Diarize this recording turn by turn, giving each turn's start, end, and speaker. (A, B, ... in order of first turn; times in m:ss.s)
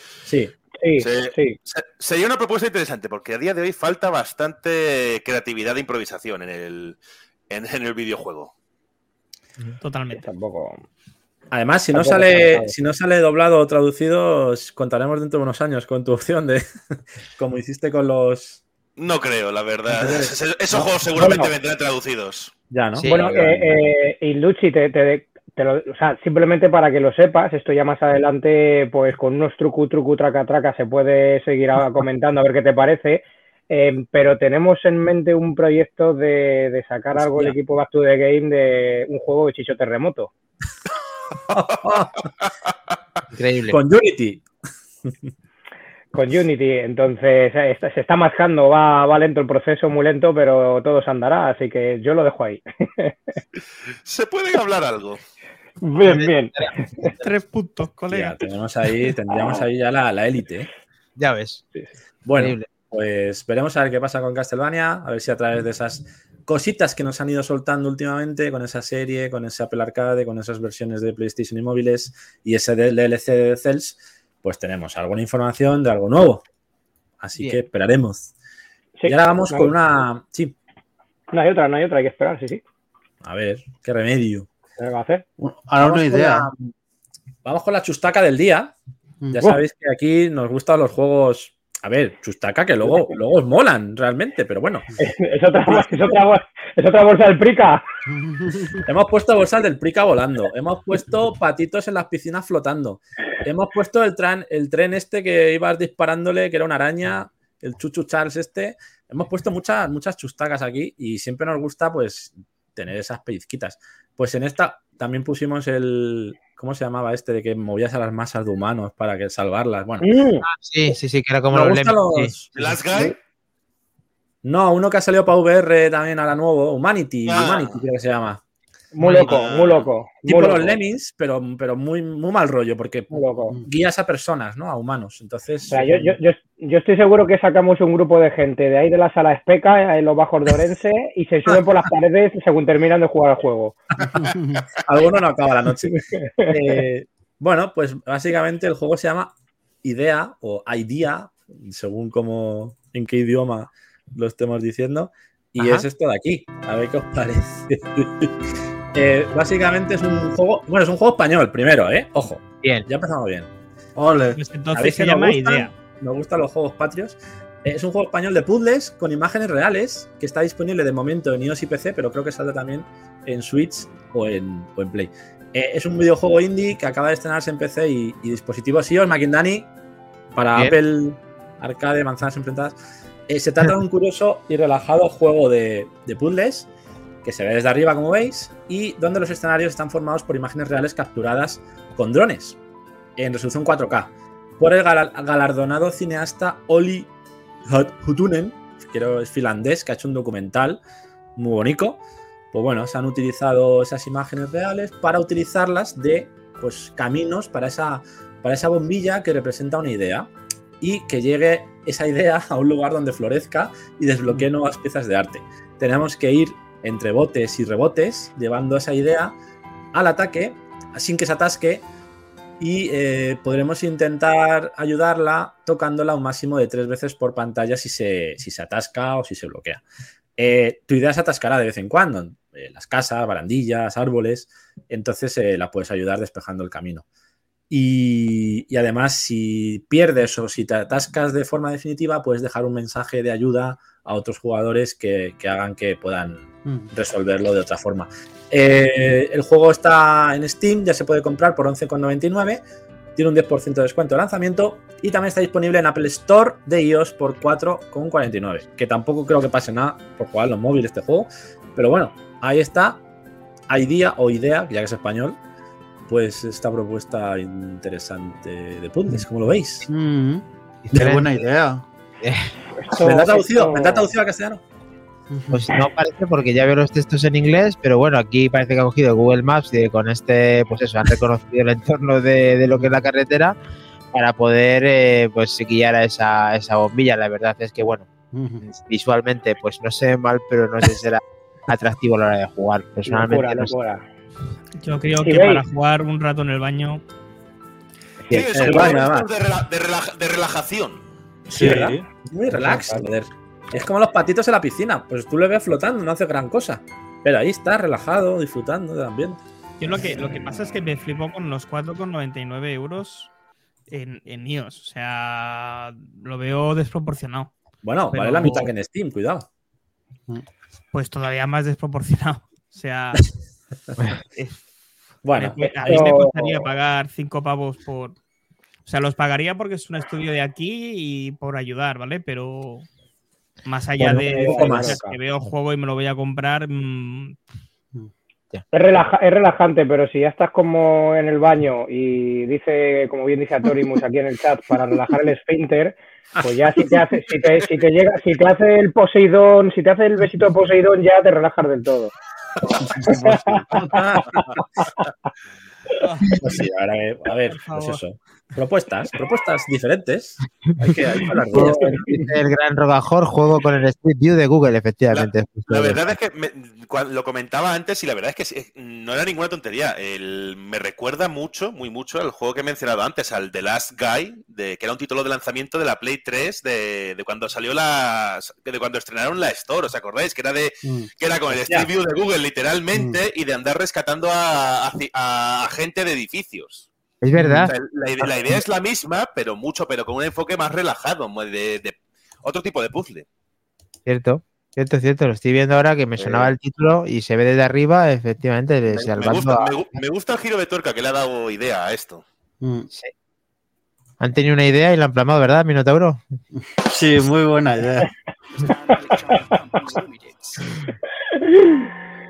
0:00.3-0:00.6 A
0:00.8-0:01.6 B
0:01.0-0:07.0 C
0:07.5-0:08.5 C
0:09.8-0:10.3 D
0:10.1-0:10.8 B
0:11.5-0:16.6 A
0:11.9-0:12.7 B
0:17.4-0:18.6 A
0:19.0-0:22.5 C
0:20.1-0:21.3 A
0:21.2-0:21.5 B
0:22.7-0:23.8 A
0:22.9-0:23.2 E
0:23.1-0:40.3 B
0:41.5-0:42.2 A
0:43.3-0:43.8 E
0:43.7-0:44.4 A
0:46.1-0:53.4 B
0:54.1-0:55.2 C
0:55.8-0:56.7 B
0:56.1-0:56.6 E
0:57.1-0:58.4 D
0:58.1-1:00.7 A
0:59.3-0:59.6 B
1:01.2-1:01.6 E
1:02.2-1:16.4 A
1:02.4-1:02.7 E
1:17.2-1:18.3 A
1:19.0-1:19.7 B
1:19.1-1:20.6 A
1:21.3-1:22.6 B
1:23.2-1:24.5 A
1:24.8-1:25.2 B
1:25.4-1:26.5 F
1:25.8-1:26.7 A
1:27.4-1:28.7 A
1:29.2-1:29.6 F
1:29.3-1:34.9 A
1:35.0-1:37.9 B
1:35.7-1:36.2 A
1:38.1-1:38.8 F
1:38.8-2:00.1 A
2:00.0-2:00.4 B
2:00.4-2:02.3 E
2:01.5-2:02.6 A
2:02.6-2:03.2 C
2:04.4-2:08.4 A
2:07.3-2:07.8 C
2:08.9-2:10.8 B
2:09.0-2:09.3 E
2:09.3-2:09.9 C
2:10.2-2:16.0 A
2:13.1-2:13.6 B
2:15.7-2:23.8 B
2:24.2-2:24.6 F
2:24.8-2:38.3 A
2:26.4-2:26.8 B
2:35.6-2:35.8 E
2:38.9-2:43.5 A
2:44.0-2:44.4 F
2:44.4-2:45.7 D
2:44.7-2:59.7 A
3:00.4-3:02.8 A
3:03.3-3:06.7 A
3:07.2-3:12.6 A
3:13.2-3:17.1 A
3:17.7-3:20.8 A
3:21.4-3:22.0 A
3:22.5-3:30.3 A
3:30.8-3:39.3 A
3:39.9-3:41.8 A
3:42.6-3:49.8 A
3:50.4-3:57.0 A
3:57.7-4:12.6 A
4:06.6-4:06.9 F
4:13.2-4:23.0 A
4:23.7-4:25.4 A
4:26.1-4:29.9 A
4:29.9-4:31.9 F
4:30.9-4:31.3 E
4:32.2-4:32.5 E
4:32.8-4:34.1 B
4:33.0-4:34.6 A
4:35.3-4:35.7 F
4:35.5-4:43.6 E
4:42.7-4:43.0 F
4:44.1-4:48.1 E
4:48.3-4:48.6 F
4:48.6-4:53.8 E
4:53.1-4:54.0 B
4:54.8-4:57.0 D
4:55.2-4:55.6 B
4:58.3-5:01.0 C
4:58.5-4:59.3 A
5:01.5-5:09.4 A
5:01.5-5:02.0 F
5:02.6-5:03.1 B
5:09.8-5:13.3 D
5:13.9-5:17.5 D
5:17.8-5:19.5 A
5:18.1-5:18.7 D
5:20.9-5:23.3 D
5:24.3-5:24.6 D
5:25.2-5:26.5 A
5:25.3-5:28.2 D
5:25.8-5:26.3 B
5:28.8-5:32.9 D
5:33.6-5:37.4 D
5:34.0-5:35.0 A
5:34.2-5:35.2 B
5:38.7-5:52.1 B
5:46.4-5:46.9 A
5:52.8-5:54.4 A
5:53.1-5:54.4 B
5:53.1-5:54.0 F
5:56.0-5:56.4 D
5:56.4-6:02.0 A
5:57.5-5:58.0 D
6:01.5-6:06.0 E
6:05.1-6:26.9 C
6:20.8-6:21.1 F
6:21.5-6:21.9 A
6:27.2-6:27.7 E
6:27.4-6:27.7 F
6:27.7-6:33.3 C
6:28.2-6:28.5 A
6:34.1-6:39.7 E
6:36.2-6:36.5 C
6:38.9-6:42.2 C
6:42.6-6:42.9 F
6:44.2-6:46.2 E
6:46.5-6:48.1 F
6:51.4-6:51.9 B